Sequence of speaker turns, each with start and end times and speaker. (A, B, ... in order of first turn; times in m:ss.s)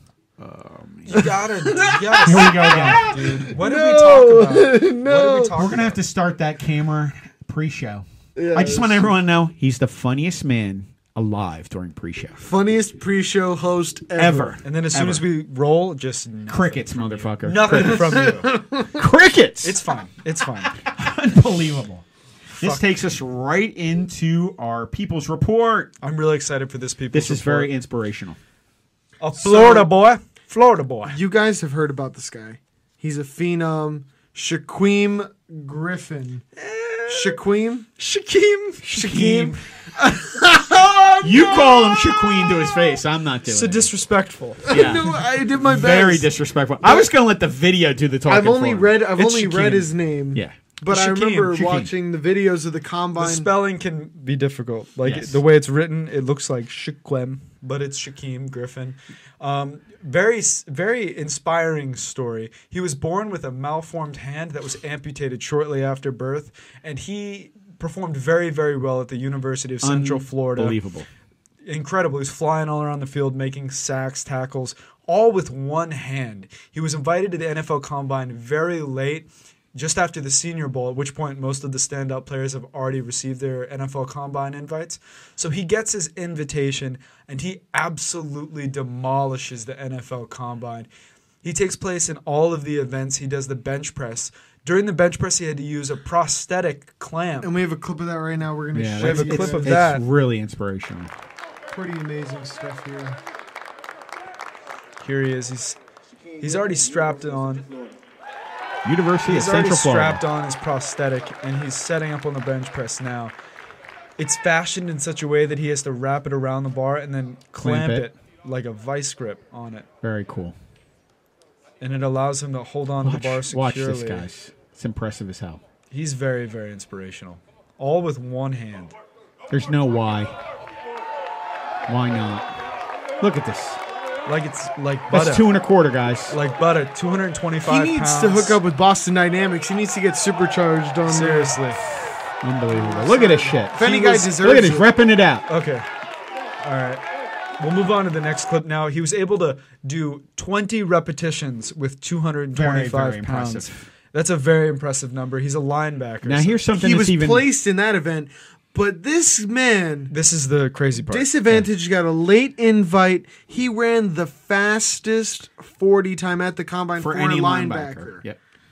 0:00.4-0:01.3 A
0:01.1-0:06.0 B
0:01.1-0:05.5 C
0:02.2-0:03.5 A
0:05.5-0:12.4 A
0:08.4-0:09.1 C
0:12.4-0:14.6 C
0:14.2-0:15.2 A
0:14.6-0:18.6 B
0:16.5-0:18.3 A
0:17.8-0:19.0 C
0:18.9-0:19.8 A
0:19.6-0:20.8 B
0:20.8-0:22.0 A
0:22.5-0:22.8 B
0:22.6-0:25.9 A
0:26.0-0:27.7 B
0:27.1-0:28.4 A
0:29.2-0:31.2 B
0:29.4-0:29.9 C
0:31.1-0:36.4 C
0:36.6-0:37.4 B
0:37.1-0:37.9 C
0:38.0-0:39.6 B
0:38.8-0:42.5 C
0:41.2-0:43.9 A
0:43.5-0:44.8 B
0:44.7-0:46.3 C
0:44.7-0:49.1 A
0:46.8-0:47.1 C
0:48.3-0:53.5 C
0:49.2-0:49.9 B
0:50.9-0:51.6 B
0:51.5-0:51.9 A
0:53.2-1:10.8 B
0:55.0-0:55.4 A
1:09.8-1:11.1 A
1:11.6-1:30.9 B
1:31.4-1:37.5 B
1:37.4-1:39.8 C
1:38.7-1:41.1 A
1:39.0-1:40.0 B
1:41.7-1:43.2 C
1:45.0-1:45.8 B
1:46.4-1:47.7 B
1:48.8-1:50.2 A
1:49.2-1:53.3 B
1:54.2-1:59.9 B
1:57.6-1:58.1 A
2:00.0-2:00.6 A
2:01.8-2:04.2 B
2:03.0-2:05.6 A
2:05.9-2:08.9 B
2:09.5-2:10.3 A
2:11.9-2:12.5 A
2:13.2-2:13.8 A
2:14.2-2:15.5 B
2:15.1-2:16.4 A
2:16.3-2:18.6 B
2:17.7-2:21.5 C
2:21.1-2:21.8 B
2:22.4-2:25.4 A
2:22.7-2:24.9 C
2:25.5-2:25.8 B
2:26.6-2:27.0 B
2:27.6-2:36.6 B
2:32.5-2:33.8 A
2:36.2-2:37.5 A
2:36.7-2:40.1 C
2:40.1-2:41.3 B
2:41.1-2:48.2 C
2:47.0-2:48.4 A